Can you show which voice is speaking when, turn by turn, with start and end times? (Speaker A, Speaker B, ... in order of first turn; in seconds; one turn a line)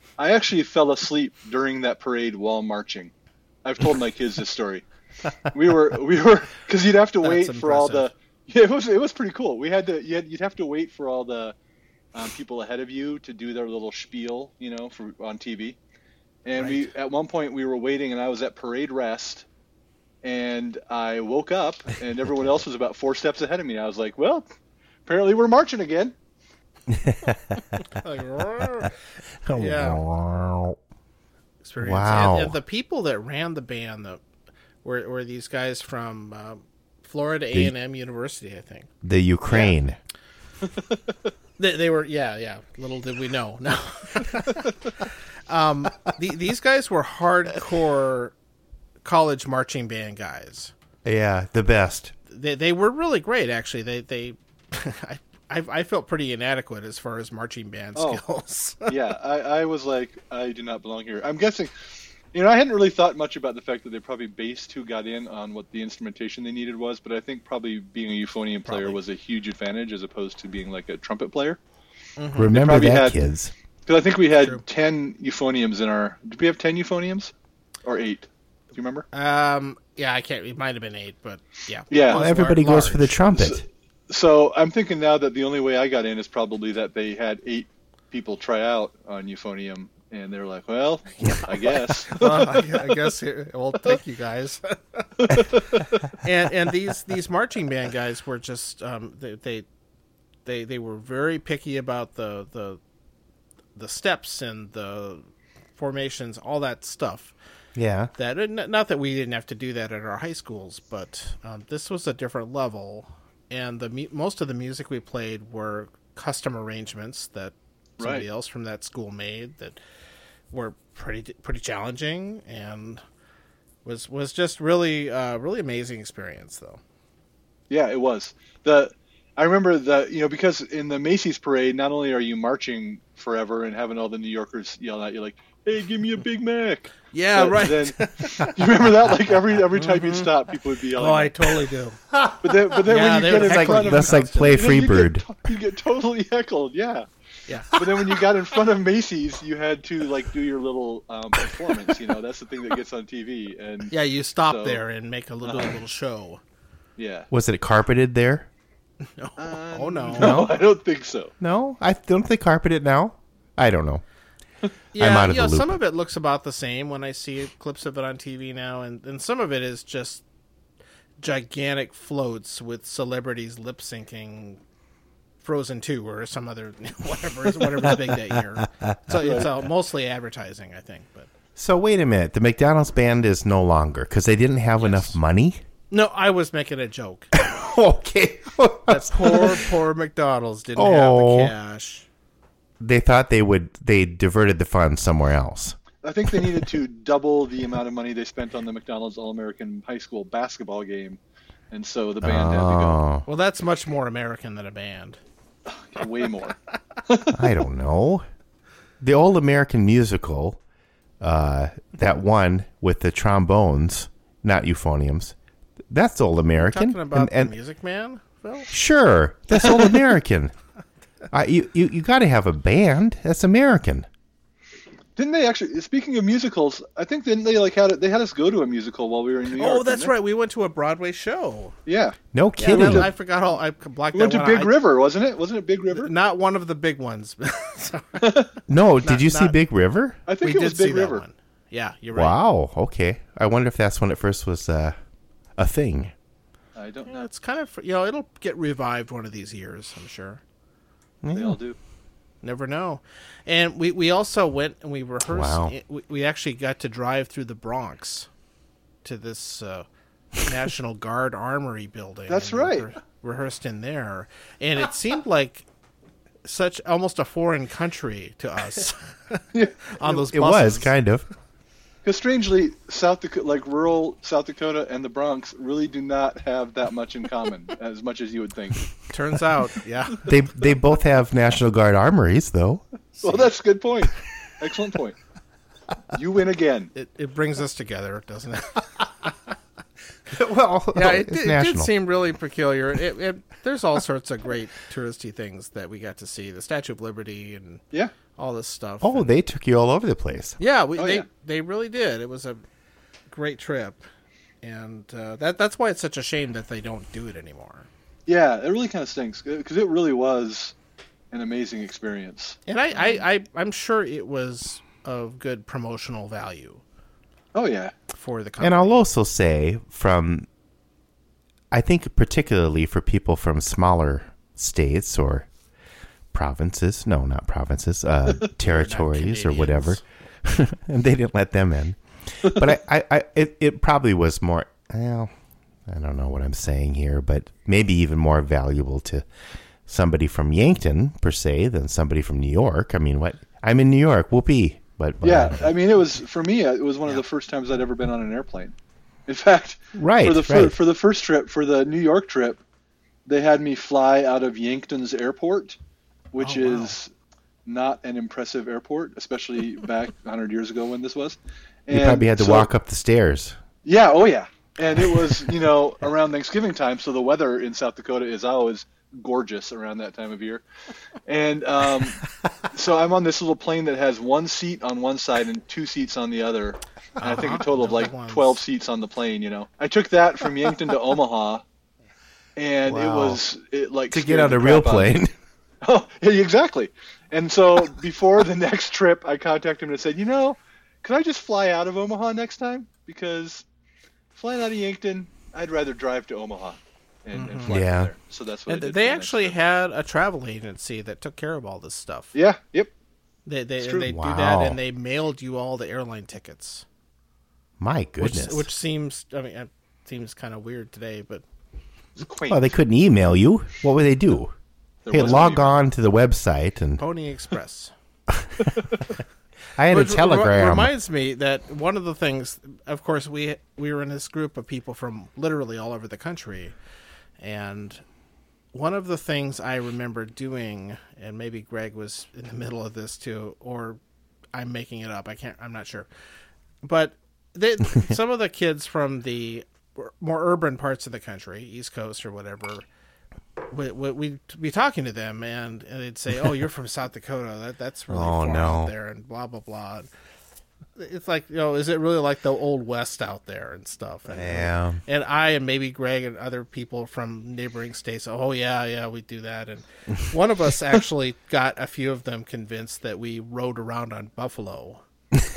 Speaker A: 0.2-3.1
Speaker A: 3.6-4.8
Speaker A: 5.5-11.6
Speaker B: 7.2-8.1
Speaker A: 12.1-15.8
Speaker A: 16.4-19.5
Speaker B: 16.6-16.9
Speaker A: 20.2-24.5
Speaker A: 25.1-26.1
Speaker C: 26.9-27.8
Speaker B: 27.9-28.9
Speaker C: 29.4-30.8
Speaker B: 29.5-30.0
Speaker B: 31.6-34.2
Speaker C: 31.8-32.6
Speaker B: 34.8-38.9
Speaker C: 39.0-40.0
Speaker B: 41.6-44.9
Speaker B: 45.5-48.4
Speaker B: 49.0-50.7
Speaker C: 51.0-52.1
Speaker B: 52.3-59.0
Speaker A: 58.0-58.2
Speaker A: 58.9-61.7
Speaker A: 62.3-71.6
Speaker B: 68.7-69.0
Speaker B: 72.2-72.7
Speaker C: 72.4-73.5
Speaker A: 72.5-73.2
Speaker A: 73.9-77.3
Speaker B: 74.4-74.6
Speaker A: 77.8-79.1
Speaker B: 79.1-83.2
Speaker A: 81.9-82.2
Speaker C: 82.1-83.7
Speaker A: 83.3-92.8
Speaker B: 92.1-95.5
Speaker A: 95.3-95.9
Speaker B: 96.2-99.7
Speaker B: 100.5-102.8
Speaker B: 103.8-107.3
Speaker C: 107.8-108.1
Speaker B: 108.2-119.8
Speaker A: 118.0-118.3
Speaker B: 120.5-123.0
Speaker B: 123.8-126.8
Speaker A: 127.7-141.5
Speaker B: 137.1-138.9
Speaker B: 139.7-140.3
Speaker B: 141.0-142.0
Speaker A: 142.4-147.1
Speaker B: 142.8-144.7
Speaker C: 143.3-145.2
Speaker B: 147.5-147.8
Speaker A: 147.7-154.8
Speaker B: 153.9-156.4
Speaker A: 155.4-155.8
Speaker A: 157.0-157.3
Speaker C: 157.3-158.5
Speaker B: 159.2-160.4
Speaker A: 159.4-161.3
Speaker C: 160.2-160.6
Speaker C: 161.4-164.0
Speaker B: 164.9-170.2
Speaker C: 165.0-165.8
Speaker B: 171.2-174.6
Speaker B: 175.4-181.3
Speaker C: 178.8-179.4
Speaker A: 179.2-179.5
Speaker C: 181.6-185.6
Speaker B: 184.8-185.2
Speaker B: 185.9-187.3
Speaker C: 187.3-189.7
Speaker B: 188.9-192.1
Speaker C: 190.8-191.5
Speaker C: 192.8-195.8
Speaker A: 196.0-201.2
Speaker A: 201.7-203.0
Speaker C: 202.2-203.2
Speaker B: 203.3-205.2
Speaker A: 205.7-207.5
Speaker C: 207.3-208.2
Speaker C: 209.0-210.6
Speaker C: 211.2-215.3
Speaker C: 215.9-217.5
Speaker B: 216.6-218.7
Speaker C: 218.7-220.5
Speaker A: 219.5-220.0
Speaker C: 221.3-224.1
Speaker A: 225.2-230.1
Speaker B: 229.6-231.8
Speaker A: 231.9-232.2
Speaker C: 232.3-233.1
Speaker B: 232.6-234.8
Speaker A: 234.1-236.1
Speaker B: 235.9-238.5
Speaker A: 238.2-238.5
Speaker C: 238.7-240.2
Speaker B: 239.0-239.6
Speaker A: 240.3-241.2
Speaker B: 240.4-242.4
Speaker C: 242.2-244.9
Speaker C: 245.6-246.1
Speaker A: 246.8-247.2
Speaker B: 247.1-250.4
Speaker C: 251.2-251.6
Speaker A: 251.3-251.8
Speaker B: 252.4-258.3
Speaker C: 255.3-255.8
Speaker B: 259.0-259.9
Speaker B: 260.4-265.7
Speaker A: 262.3-262.9
Speaker B: 266.4-270.9
Speaker A: 269.5-269.9
Speaker C: 270.0-271.3
Speaker A: 272.0-278.9
Speaker B: 279.1-280.3
Speaker C: 280.2-282.8
Speaker B: 283.2-283.5
Speaker A: 283.2-285.2
Speaker A: 286.1-286.9
Speaker B: 286.9-289.5
Speaker C: 290.3-291.9
Speaker B: 290.9-297.8
Speaker B: 298.4-299.3
Speaker C: 299.0-300.6
Speaker B: 300.6-302.6
Speaker A: 301.0-301.3
Speaker B: 303.3-304.0
Speaker B: 304.6-307.9
Speaker A: 308.3-310.8
Speaker A: 311.3-313.2
Speaker B: 312.7-316.8
Speaker A: 317.5-317.9
Speaker B: 318.1-319.0
Speaker C: 318.6-320.5
Speaker C: 321.7-325.5
Speaker C: 326.3-335.3
Speaker B: 328.6-330.0
Speaker C: 335.9-339.2
Speaker C: 339.9-345.8
Speaker A: 345.2-348.8
Speaker A: 349.3-352.6
Speaker C: 349.9-350.8
Speaker A: 353.3-355.8
Speaker A: 356.3-357.1
Speaker B: 356.4-356.9
Speaker A: 357.7-362.7
Speaker C: 361.9-363.6
Speaker A: 363.8-370.6
Speaker A: 371.3-381.6
Speaker B: 377.2-378.6
Speaker A: 382.6-385.2
Speaker C: 382.9-383.4
Speaker C: 384.1-385.3
Speaker A: 385.8-393.6
Speaker A: 394.4-399.6
Speaker B: 397.3-397.8
Speaker C: 397.7-398.1
Speaker B: 398.7-402.4
Speaker A: 402.3-402.9
Speaker B: 403.5-406.9
Speaker A: 403.8-404.1
Speaker C: 404.0-404.8
Speaker C: 407.8-408.7
Speaker B: 408.2-411.4
Speaker A: 412.2-412.8
Speaker C: 412.5-414.5
Speaker A: 415.1-415.8
Speaker C: 415.1-417.0
Speaker B: 417.0-417.9
Speaker C: 418.4-418.7
Speaker C: 419.8-420.9
Speaker B: 419.9-426.8
Speaker B: 427.4-428.0
Speaker B: 428.7-434.0
Speaker B: 434.5-436.1
Speaker B: 436.8-442.9
Speaker B: 443.7-450.1
Speaker C: 448.1-448.9
Speaker B: 451.0-465.0
Speaker C: 454.3-455.0